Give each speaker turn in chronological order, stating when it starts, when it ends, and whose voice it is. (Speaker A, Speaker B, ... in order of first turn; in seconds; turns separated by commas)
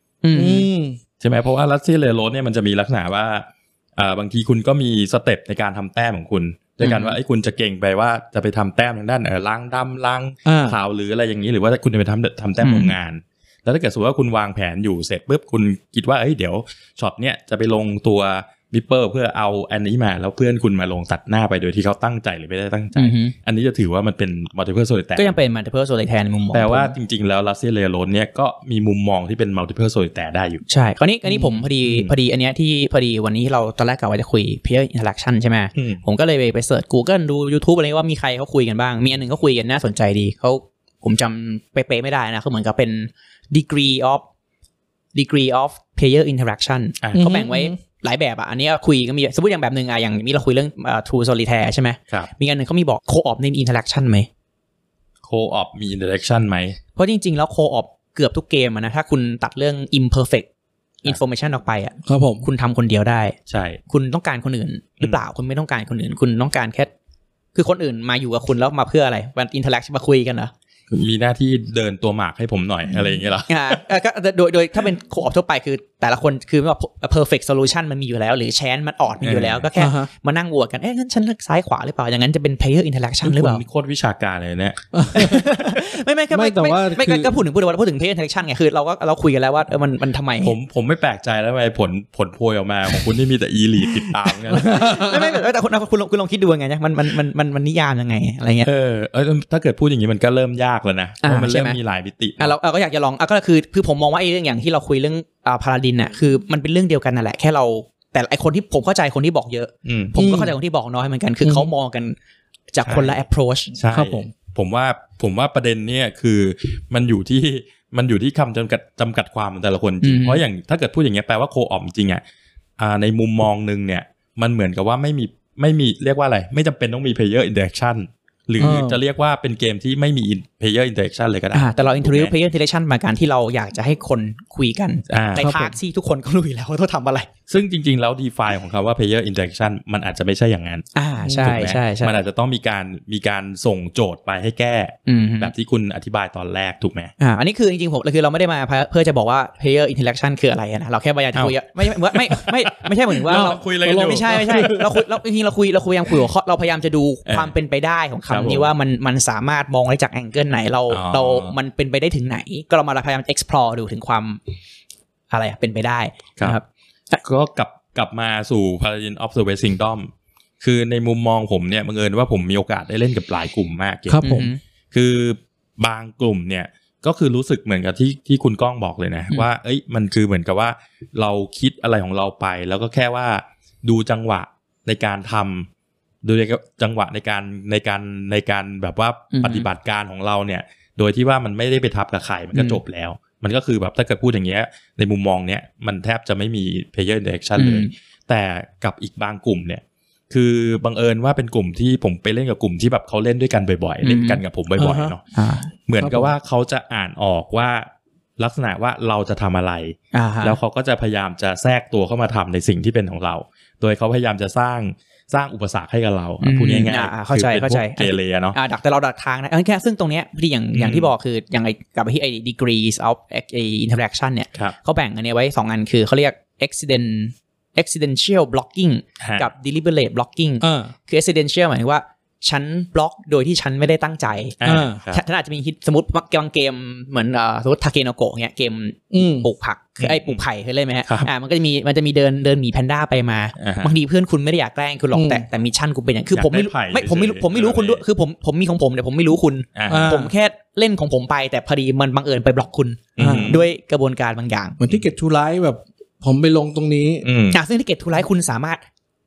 Speaker A: 0.2-0.7, Speaker B: 0.3-1.0, Speaker C: 1.2-25.4, Speaker A: 6.8-7.2, Speaker B: 10.4-10.8, Speaker A: 12.6-12.9, Speaker A: 22.9-23.3, Speaker A: 25.1-26.9, Speaker C: 26.5-30.6, Speaker A: 30.7-44.2, Speaker C: 31.4-32.1, Speaker C: 35.8-36.0, Speaker A: 45.1-54.3, Speaker C: 47.0-47.3, Speaker B: 47.1-47.8, Speaker C: 55.2-56.8, Speaker A: 57.0-60.5, Speaker A: 61.0-63.4, Speaker B: 62.0-62.5, Speaker C: 63.5-63.8, Speaker A: 63.9-66.9, Speaker A: 67.5-70.5, Speaker C: 70.9-73.8, Speaker A: 73.5-83.6, Speaker C: 79.2-79.7, Speaker B: 79.8-80.1, Speaker C: 83.2-84.8, Speaker B: 84.9-85.5, Speaker A: 85.1-90.5, Speaker B: 86.3-87.4, Speaker C: 90.4-95.1, Speaker A: 94.5-98.7, Speaker B: 94.6-95.2, Speaker C: 98.6-102.5, Speaker A: 101.2-101.8, Speaker A: 102.4-112.1, Speaker C: 109.8-110.2, Speaker B: 110.2-110.5, Speaker B: 111.4-111.7, Speaker A: 112.7-113.7, Speaker C: 112.8-113.2, Speaker C: 113.7-122.2, Speaker B: 113.9-114.3, Speaker A: 120.0-120.4, Speaker C: 122.8-132.3, Speaker B: 128.6-129.0, Speaker A: 131.5-137.3, Speaker C: 135.1-135.5, Speaker B: 135.3-135.7, Speaker C: 137.5-140.9, Speaker A: 140.9-142.1, Speaker B: 141.2-141.7, Speaker C: 141.4-147.1, Speaker A: 145.1-145.5, Speaker A: 147.2-164.4, Speaker C: 151.3-154.8, Speaker B: 153.3-154.8, Speaker C: 157.2-157.5, Speaker C: 158.3-158.7, Speaker C: 160.9-161.5, Speaker A: 165.3-167.2, Speaker C: 167.2-185.7, Speaker B: 174.1-174.5, Speaker A: 174.2-174.6, Speaker C: 186.2-205.2, Speaker A: 189.3-189.7, Speaker A: 192.5-192.8, Speaker A: 197.6-197.9, Speaker A: 204.0-204.4, Speaker B: 204.8-205.1, Speaker A: 205.3-205.7, Speaker C: 205.9-218.6, Speaker B: 206.0-206.3, Speaker A: 210.1-210.6, Speaker A: 216.4-234.6, Speaker C: 220.7-221.1, Speaker C: 229.2-229.5, Speaker B: 230.6-230.9, Speaker C: 234.6-235.2, Speaker B: 234.6-235.0, Speaker A: 235.1-254.8, Speaker B: 239.1-239.5, Speaker C: 240.0-240.4, Speaker C: 243.6-243.9, Speaker B: 245.1-245.4, Speaker C: 246.3-248.0, Speaker C: 249.8-250.1, Speaker B: 249.9-250.3, Speaker C: 253.2-253.6, Speaker B: 253.2-253.6, Speaker B: 254.8-257.2, Speaker C: 257.2-257.6, Speaker A: 257.5-258.8